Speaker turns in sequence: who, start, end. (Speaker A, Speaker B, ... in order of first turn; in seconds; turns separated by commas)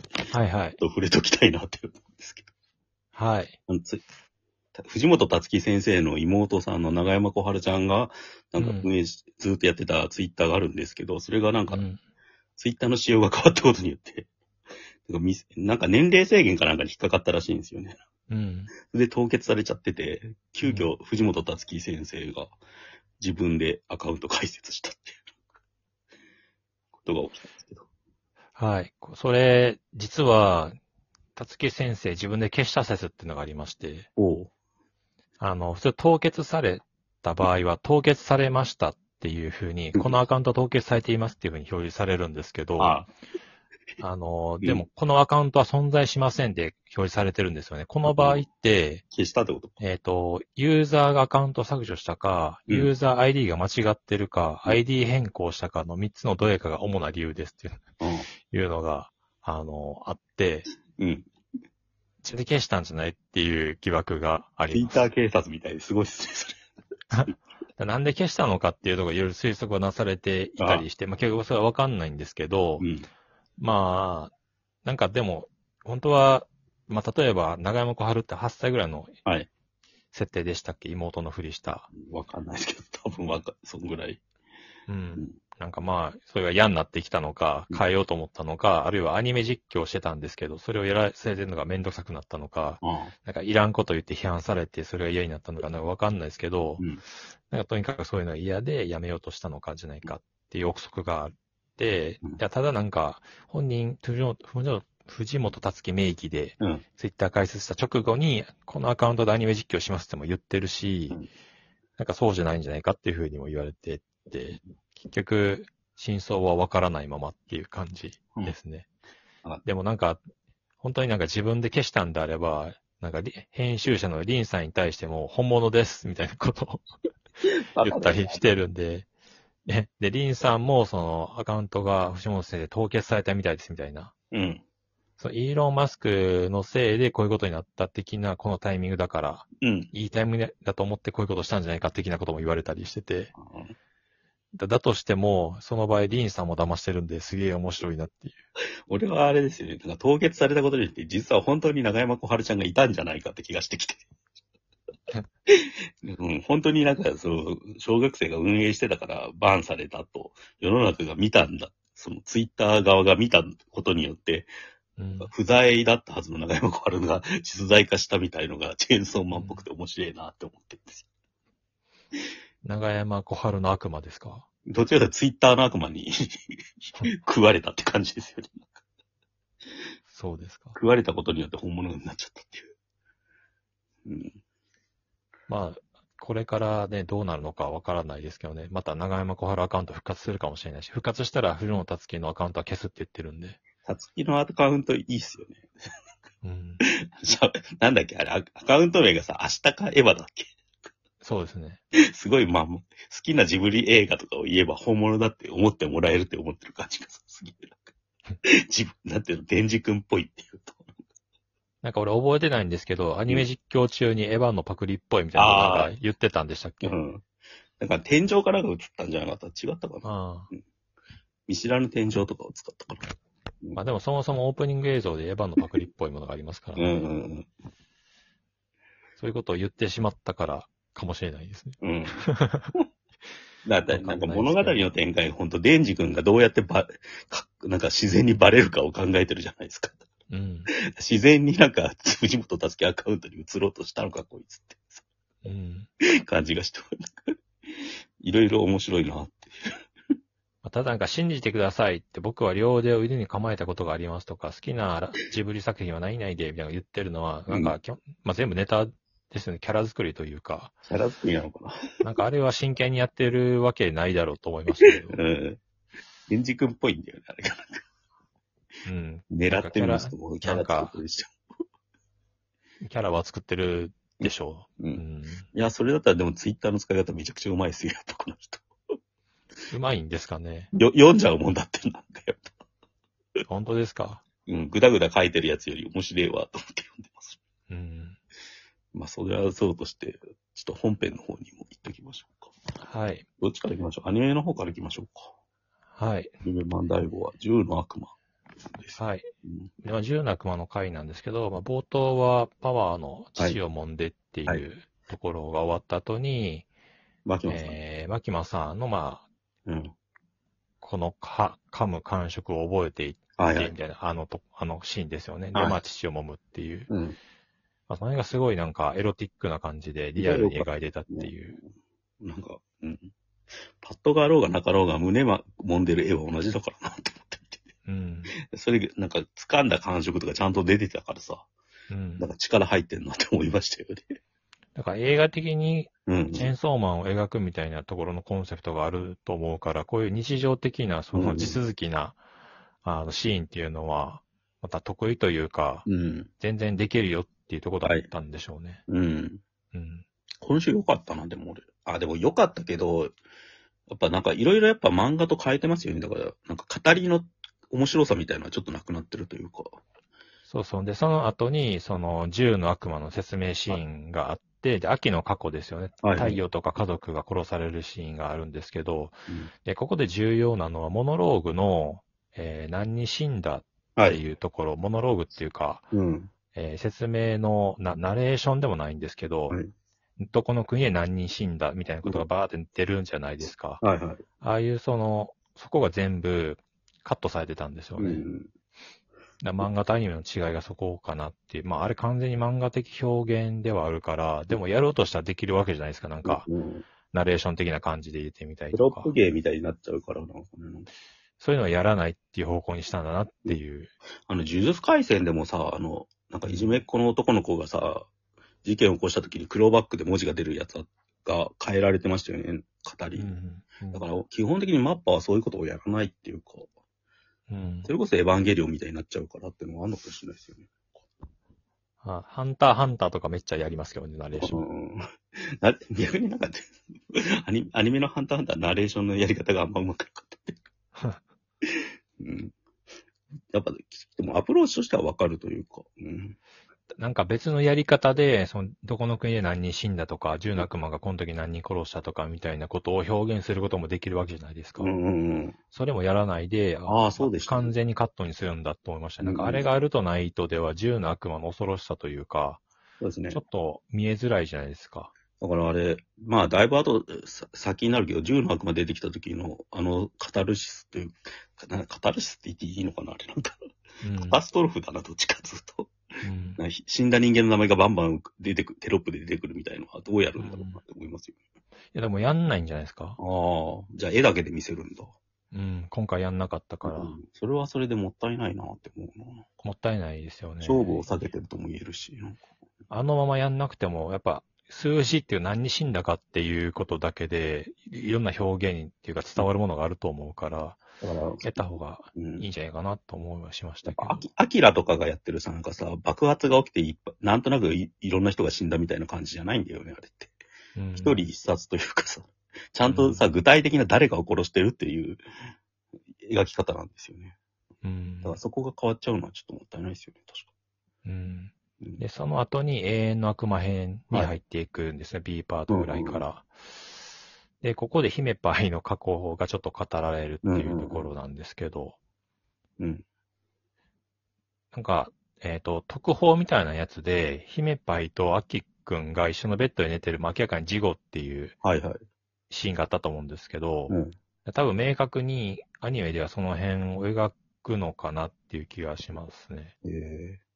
Speaker A: 0.3-0.8, Speaker B: 0.8-2.5, Speaker A: 3.1-3.6, Speaker B: 3.7-4.0, Speaker B: 4.8-11.8, Speaker A: 8.6-8.9, Speaker A: 11.7-12.0, Speaker B: 12.6-14.3, Speaker B: 15.1-18.0, Speaker A: 18.3-18.7, Speaker B: 18.9-22.6, Speaker A: 20.6-20.9, Speaker B: 23.2-25.3, Speaker B: 27.0-27.9, Speaker A: 28.6-30.8, Speaker A: 31.4-34.1, Speaker B: 34.2-34.5, Speaker A: 35.4-43.0, Speaker B: 39.9-40.2, Speaker B: 42.8-43.1, Speaker A: 44.0-49.0, Speaker B: 48.1-48.4, Speaker B: 49.1-49.8, Speaker A: 49.8-57.8, Speaker B: 58.0-58.3, Speaker A: 58.5-60.7, Speaker B: 61.0-61.3, Speaker A: 62.2-65.1, Speaker B: 64.7-66.6, Speaker A: 67.1-72.9, Speaker B: 70.6-70.8, Speaker B: 72.8-73.1, Speaker A: 73.6-74.3, Speaker A: 74.8-79.2, Speaker A: 80.1-81.9, Speaker B: 82.0-84.2, Speaker A: 84.9-96.9, Speaker B: 92.8-93.1, Speaker A: 97.5-111.2, Speaker A: 112.0-118.9, Speaker A: 119.7-120.2, Speaker A: 120.8-126.9, Speaker B: 127.8-128.5, Speaker A: 127.8-129.1, Speaker A: 129.7-134.1, Speaker B: 134.3-134.6, Speaker A: 135.2-143.3, Speaker B: 139.6-139.9, Speaker B: 143.4-143.8, Speaker A: 144.6-148.4, Speaker B: 148.9-154.1, Speaker B: 155.5-164.5, Speaker A: 165.0-165.3, Speaker B: 165.2-171.1, Speaker A: 169.3-169.7, Speaker A: 172.6-174.5, Speaker B: 174.7-178.7, Speaker A: 180.1-180.8, Speaker B: 180.8-182.7, Speaker B: 184.1-184.4, Speaker A: 185.5-193.6, Speaker B: 193.8-195.8, Speaker A: 196.4-196.8, Speaker B: 196.9-200.6, Speaker A: 201.2-201.8, Speaker B: 202.1-207.9, Speaker B: 208.7-210.9, Speaker A: 211.8-217.0, Speaker B: 215.3-216.0, Speaker B: 216.8-217.2, Speaker B: 217.8-220.6, Speaker A: 220.0-220.5, Speaker B: 221.5-223.8, Speaker A: 223.8-227.1, Speaker B: 226.8-227.5, Speaker A: 229.2-232.7, Speaker B: 231.8-232.2, Speaker B: 233.7-240.1, Speaker A: 233.9-234.9, Speaker A: 240.3-240.7, Speaker B: 240.8-245.1, Speaker A: 245.4-245.9, Speaker B: 246.2-249.8, Speaker A: 250.6-260.8, Speaker B: 257.5-257.8, Speaker B: 260.9-262.0, Speaker A: 262.0-265.2, Speaker B: 264.7-265.6, Speaker B: 266.3-267.8, Speaker A: 268.9-271.0, Speaker B: 269.3-271.4, Speaker A: 272.8-275.5, Speaker B: 275.5-278.7, Speaker A: 279.7-280.7, Speaker B: 280.7-282.5, Speaker A: 283.5-284.2, Speaker B: 284.5-287.4, Speaker A: 287.7-288.2, Speaker B: 288.9-292.5, Speaker A: 292.8-293.3, Speaker B: 293.4-295.3, Speaker A: 296.0-296.3, Speaker B: 296.4-298.2, Speaker B: 298.7-299.7, Speaker A: 299.0-299.3, Speaker A: 299.8-306.7, Speaker B: 307.2-307.8, Speaker A: 307.5-309.3, Speaker B: 309.7-309.9, Speaker A: 310.8-316.9, Speaker B: 313.4-313.7, Speaker B: 315.5-315.8, Speaker B: 316.9-317.2, Speaker A: 317.9-321.6, Speaker B: 320.2-321.3, Speaker B: 322.2-323.1, Speaker B: 323.8-327.7, Speaker A: 327.9-328.3, Speaker B: 328.5-331.5, Speaker A: 331.9-332.3, Speaker B: 332.2-334.2, Speaker A: 334.8-342.2, Speaker B: 336.1-336.5, Speaker B: 341.1-341.6, Speaker A: 342.8-345.9, Speaker B: 345.9-346.3, Speaker A: 346.4-348.8, Speaker B: 348.9-349.4, Speaker A: 349.7-350.1, Speaker B: 350.4-353.1, Speaker B: 353.9-359.8, Speaker A: 360.5-375.9, Speaker B: 366.0-366.4, Speaker B: 375.9-376.3, Speaker A: 376.5-379.6, Speaker A: 380.2-383.8, Speaker B: 383.8-384.2, Speaker A: 384.4-388.2, Speaker B: 388.0-388.5, Speaker A: 389.4-396.5, Speaker B: 396.2-396.9, Speaker A: 397.1-399.1, Speaker B: 398.7-400.9, Speaker A: 401.4-403.9, Speaker B: 404.3-408.1, Speaker A: 406.5-406.8, Speaker B: 408.6-413.3, Speaker A: 413.2-414.0, Speaker B: 413.9-416.7, Speaker A: 417.5-417.9, Speaker B: 417.9-420.7, Speaker A: 422.0-424.6, Speaker B: 424.4-430.6, Speaker B: 431.6-432.6, Speaker B: 433.5-436.4, Speaker A: 437.0-444.9, Speaker B: 444.8-445.6, Speaker A: 445.7-452.6, Speaker B: 446.9-447.7, Speaker B: 449.2-449.7, Speaker B: 453.0-453.4, Speaker A: 453.3-455.1, Speaker B: 455.4-463.6, Speaker A: 464.0-464.4, Speaker B: 464.1-466.0, Speaker A: 466.2-466.6, Speaker B: 466.6-471.4, Speaker A: 470.4-470.8, Speaker A: 471.9-473.2, Speaker B: 473.2-475.1, Speaker A: 475.5-477.1, Speaker B: 476.9-479.5, Speaker A: 479.6-481.1, Speaker B: 480.6-482.5, Speaker A: 482.9-490.8, Speaker B: 491.0-491.5, Speaker A: 491.4-494.2, Speaker B: 492.2-492.5, Speaker B: 493.9-500.4, Speaker A: 500.8-501.3, Speaker B: 501.0-505.2, Speaker A: 502.9-503.3, Speaker B: 506.2-507.4, Speaker A: 507.8-508.4, Speaker B: 508.2-510.5, Speaker A: 511.1-522.0, Speaker B: 515.7-516.3, Speaker B: 520.4-521.1, Speaker B: 522.8-523.0, Speaker A: 524.7-531.6, Speaker B: 531.6-532.0, Speaker A: 532.5-534.0, Speaker B: 533.9-534.1, Speaker A: 534.5-539.7, Speaker B: 539.8-540.4